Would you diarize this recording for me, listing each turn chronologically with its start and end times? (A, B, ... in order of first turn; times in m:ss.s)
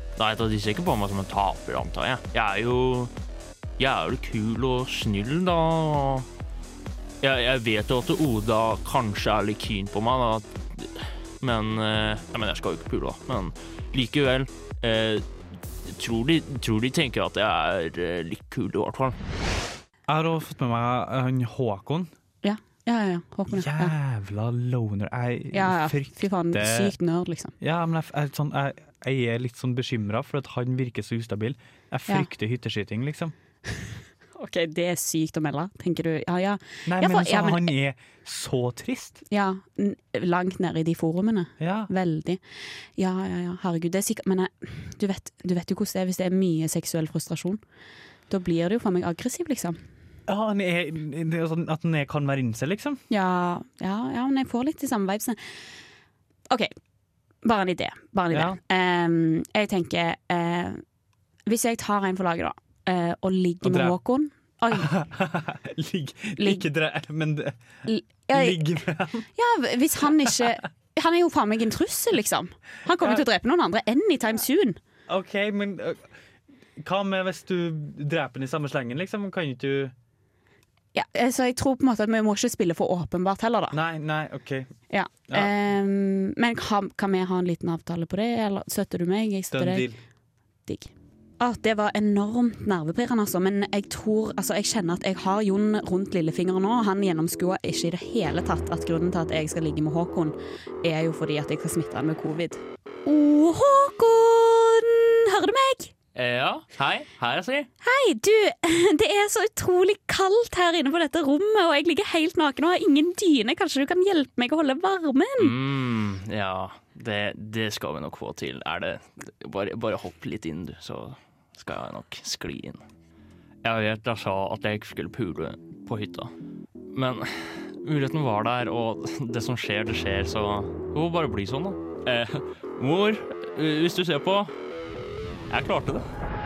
0:00.2-0:03.1 A
0:03.8-0:06.3 A
0:07.2-0:15.2 A
0:15.9-0:19.2 A
0:20.1-0:22.1 B
0:22.4-0:23.9 C
0:23.5-0:26.9 B
0:25.5-0:27.5 C
0:27.6-0:33.3 B
0:34.3-0:37.7 C
0:36.9-0:39.2 B
0:39.3-0:42.4 C
0:41.6-0:41.9 B
0:43.0-0:47.6 C
0:48.3-0:49.8 C
0:50.3-0:53.0 B
0:53.1-0:55.4 C
0:57.4-1:00.8 C
0:58.3-0:58.6 B
1:01.4-1:04.9 C
1:03.6-1:04.0 B
1:04.8-1:07.6 B
1:06.4-1:06.6 C
1:07.8-1:08.7 C
1:08.3-1:09.2 B
1:09.3-1:14.8 C
1:15.1-1:16.1 B
1:16.8-1:19.9 B
1:20.9-1:23.8 C
1:23.7-1:24.7 B
1:24.9-1:29.9 C
1:25.3-1:25.5 B
1:29.5-1:30.0 B
1:30.7-1:45.9 C
1:46.1-1:47.7 A
1:47.8-1:55.5 C
1:55.4-2:02.8 A
2:03.6-2:06.3 A
2:06.9-2:14.5 A
2:15.5-2:16.0 A